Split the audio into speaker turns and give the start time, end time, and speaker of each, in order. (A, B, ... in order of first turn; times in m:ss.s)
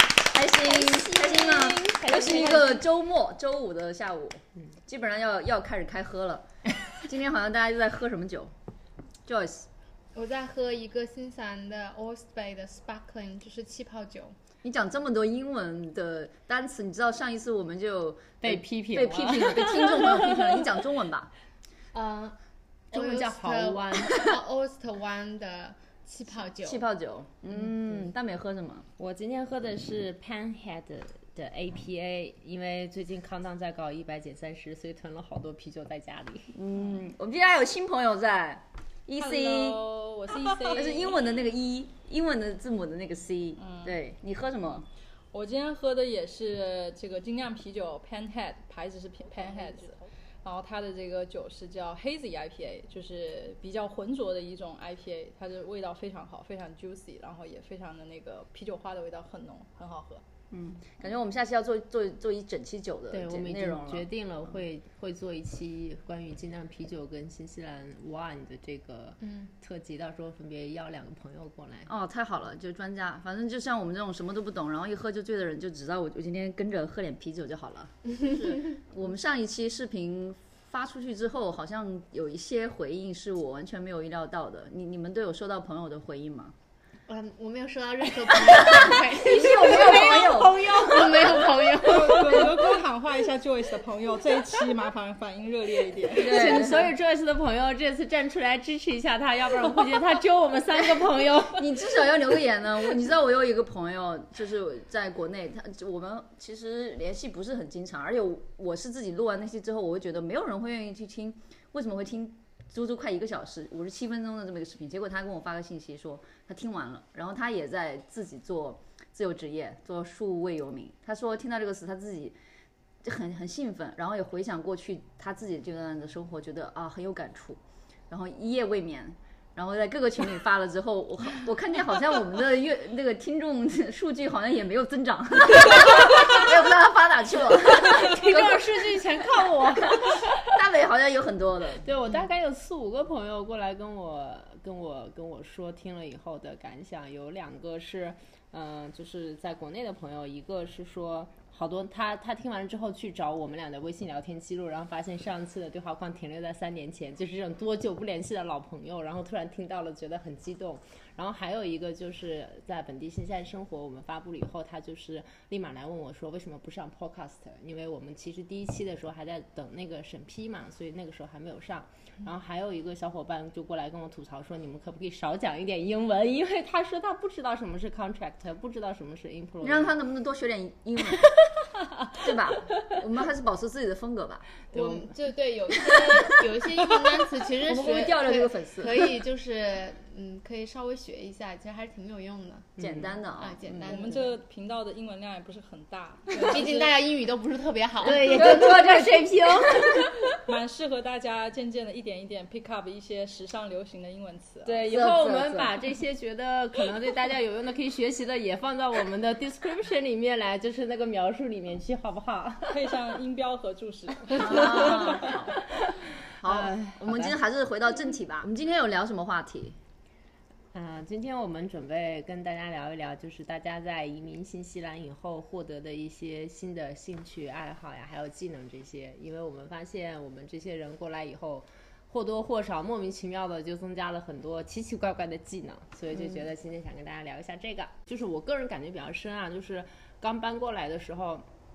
0:00.3-0:08.5 A
0:00.5-0:02.9 B
0:09.2-0:09.7 A
0:10.1-0:14.3 C
0:14.6-0:21.3 A
0:18.4-0:20.8 B
0:21.9-0:22.4 C
0:22.9-0:26.8 C
0:22.9-0:24.3 B
0:26.6-0:28.9 A
0:27.5-0:28.1 B
0:29.0-0:36.5 B
0:36.5-0:39.8 A
0:39.2-0:41.3 D
0:40.7-0:44.9 A
0:43.6-0:44.0 D
0:45.3-1:00.2 D
1:00.5-1:04.1 A
1:03.1-1:11.9 B
1:11.9-1:26.5 A
1:27.1-1:32.8 C
1:28.6-1:30.8 A
1:29.2-1:32.8 B
1:31.8-1:36.8 D
1:36.0-1:41.9 B
1:36.1-1:36.9 A
1:41.6-2:02.4 A
2:03.0-2:18.8 A
2:17.8-2:20.4 B
2:18.1-2:19.8 C
2:20.0-2:21.9 A
2:21.8-3:00.0 B
2:59.6-3:01.3 A
3:02.1-3:04.5 A
3:04.7-3:05.1 B
3:04.7-3:12.8 C
3:07.6-3:09.1 A
3:12.8-3:13.2 B
3:12.8-3:13.9 A
3:13.3-3:14.4 C
3:13.8-3:16.9 D
3:16.3-3:18.5 C
3:18.0-3:20.4 B
3:18.1-3:19.9 A
3:20.3-3:24.9 D
3:24.6-3:32.9 B
3:24.7-3:25.7 A
3:32.7-3:35.4 D
3:34.3-3:35.6 A
3:34.3-3:37.4 B
3:36.4-3:39.8 A
3:40.7-4:01.5 B